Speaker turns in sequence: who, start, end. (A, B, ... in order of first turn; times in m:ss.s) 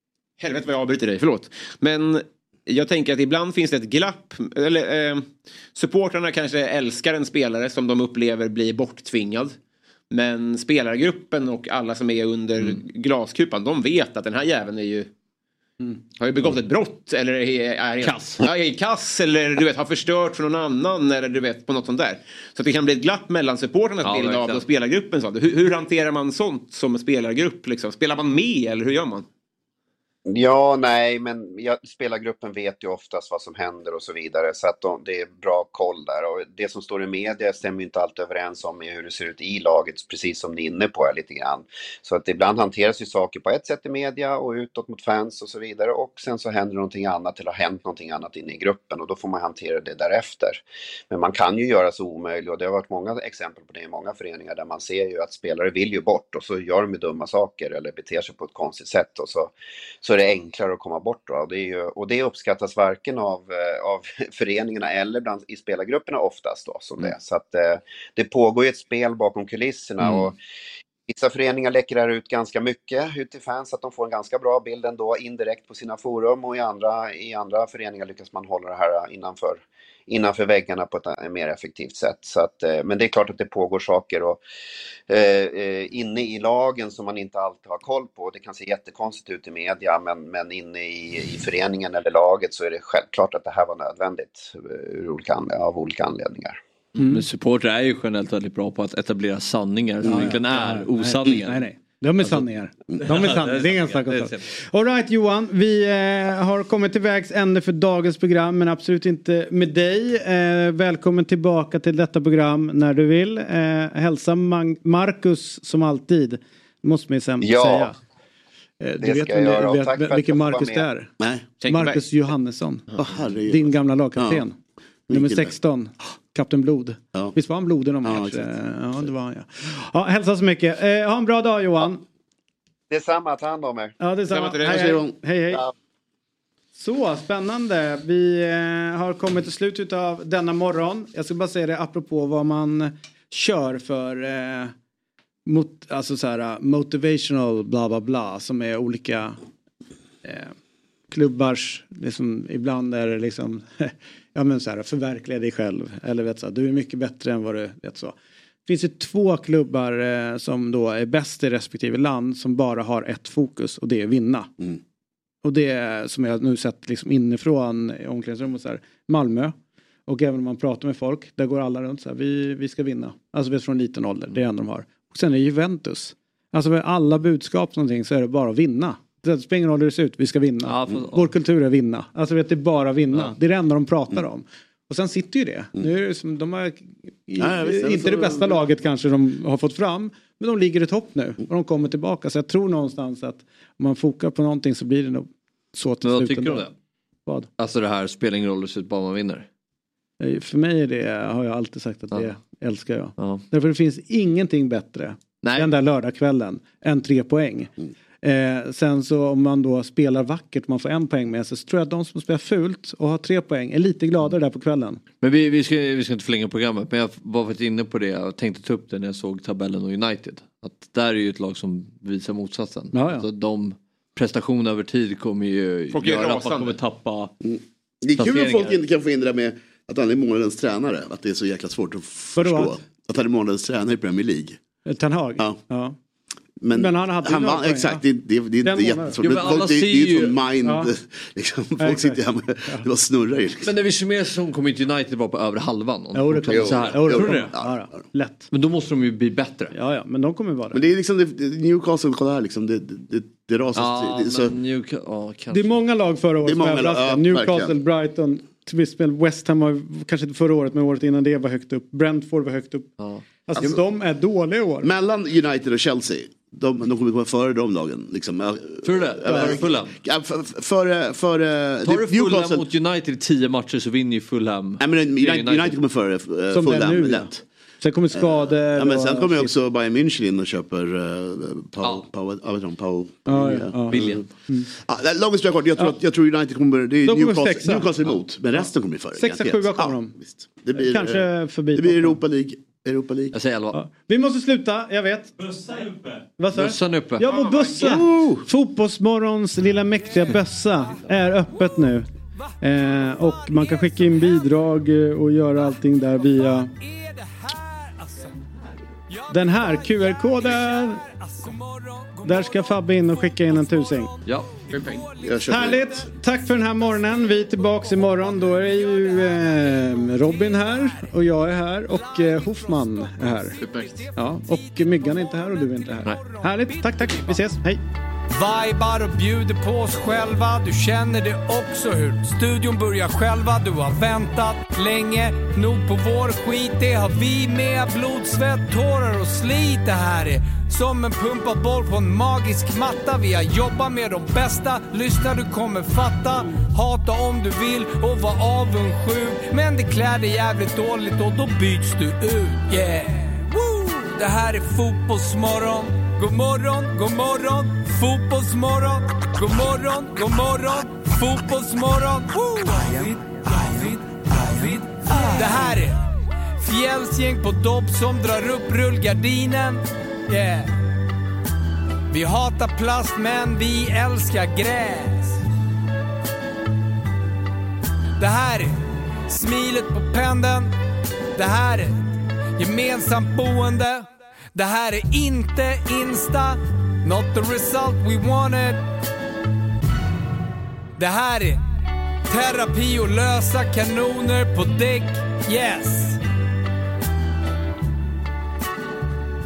0:00.4-0:09.6 A
0:10.1-0:15.1 A
0:16.2-0:29.3 A
0:18.0-0:18.4 B
0:24.0-0:24.6 B
0:30.3-1:10.4 C
1:11.1-1:24.4 C
1:25.1-1:36.6 C
1:37.0-1:37.2 D
1:37.0-1:41.6 B
1:40.0-1:40.3 E
1:40.0-1:58.0 D
1:43.0-1:44.5 B
1:57.4-1:57.9 C
1:58.8-2:01.1 D
1:59.0-2:00.9 C
2:01.2-2:01.5 E
2:01.6-2:02.0 A
2:01.6-2:04.6 D
2:03.0-2:04.4 E
2:05.1-2:05.5 E
2:05.1-2:12.0 D
2:08.0-2:08.5 E
2:12.9-2:14.0 C
2:14.0-2:15.7 D
2:14.3-2:14.8 A
2:14.6-2:15.1 E
2:16.8-2:24.7 D
2:25.5-2:29.4 D
2:30.2-2:30.5 D
2:31.1-2:38.2 D
2:38.7-2:44.5 D
2:45.4-2:49.6 D
2:50.1-3:16.7 D
3:00.6-3:01.3 B
3:07.4-3:08.6 E
3:16.0-3:16.7 B
3:17.6-3:19.5 B
3:20.2-3:35.0 D
3:23.2-3:23.4 B
3:35.2-3:47.3 B
3:42.9-3:43.3 D
3:45.9-3:46.8 A
3:47.4-3:54.6 E
3:48.2-3:48.8 B
3:52.4-3:52.8 D
3:54.9-3:56.0 D
3:56.6-4:03.7 E
3:56.7-3:58.0 D
3:58.6-3:59.2 D
3:59.2-4:00.4 B
4:00.6-4:00.9 D
4:01.8-4:02.9 D
4:03.6-4:07.5 B
4:06.1-4:08.5 D
4:06.5-4:07.9 E
4:08.5-4:09.7 B
4:09.7-4:10.8 D
4:10.7-4:14.6 E
4:13.8-4:15.8 B
4:15.5-4:22.9 D
4:16.4-4:17.7 E
4:23.0-4:23.2 B
4:23.5-4:24.9 D
4:24.8-4:32.7 E
4:28.8-4:30.0 B
4:29.3-4:29.6 D
4:31.8-4:35.8 B
4:34.8-4:37.4 E
4:36.5-4:39.5 D
4:38.2-4:53.4 E
4:43.3-4:44.7 D
4:43.9-4:44.3 B
4:47.0-4:48.0 D
4:48.6-4:50.2 D
4:50.7-4:52.2 D
4:53.3-4:53.8 B
4:53.7-4:55.5 D
4:56.4-5:02.1 D
4:56.5-4:57.3 B
4:57.3-4:57.9 A
5:01.5-5:04.5 F
5:02.6-5:06.7 D
5:06.2-5:08.4 F
5:09.1-5:15.8 F
5:09.3-5:11.0 D
5:12.2-5:14.1 D
5:14.7-5:15.1 A
5:15.2-5:16.0 E
5:15.5-5:23.6 D
5:16.4-5:21.1 F
5:21.8-5:27.4 F
5:23.6-5:24.1 A
5:24.2-5:27.8 D
5:28.3-6:06.0 F
6:06.6-6:10.8 F
6:12.1-6:15.4 F
6:18.2-6:18.8 F
6:19.3-6:20.7 F
6:21.4-6:28.8 F
6:31.0-6:31.6 F
6:32.3-6:36.2 F